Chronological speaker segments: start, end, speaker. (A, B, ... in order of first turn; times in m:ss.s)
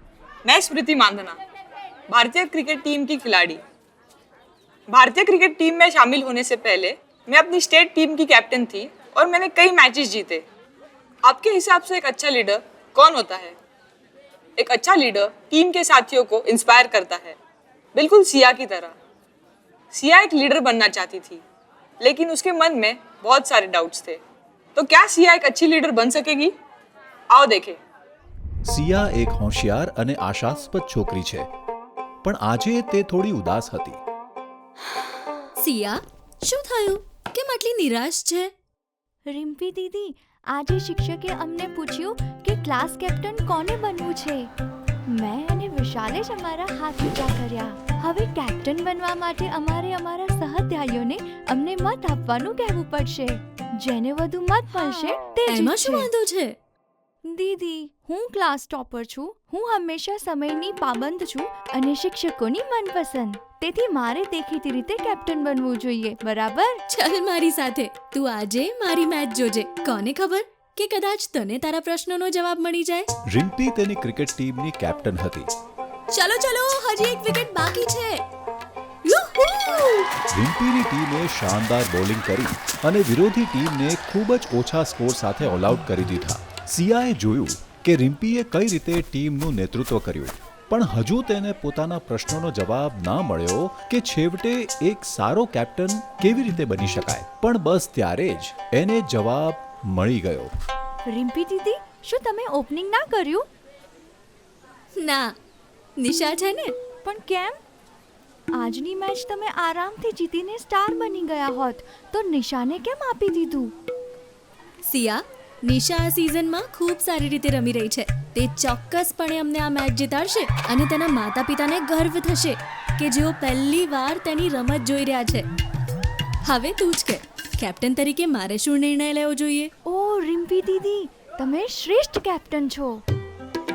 0:00.4-0:01.4 A
0:02.1-0:03.6 A
0:04.9-0:10.4 A
0:11.2-0:13.6 A
0:14.6-0:17.4 A
0:18.0-0:19.0 A
0:19.9-0:21.4 A
0:22.0-0:24.2 A
0:24.8-0:26.5 A
0:27.3-0:27.8 A
0:28.7-0:31.5 B
0:32.2-0:34.0 B
0:35.6-0:38.5 C
0:39.3-0:44.5 D
0:45.1-0:56.1 D
0:55.5-0:56.6 C
0:57.3-1:06.8 D
1:06.9-1:13.1 C
1:13.3-1:15.5 B
1:16.1-1:18.2 C
1:19.0-1:20.1 C
1:20.3-1:40.5 B
1:41.1-1:43.4 D
1:45.0-1:45.4 C
1:46.0-1:46.8 C
1:47.0-1:47.6 D
1:48.6-1:53.7 D
1:54.8-2:05.5 C
2:06.4-2:09.7 C
2:09.9-2:13.0 D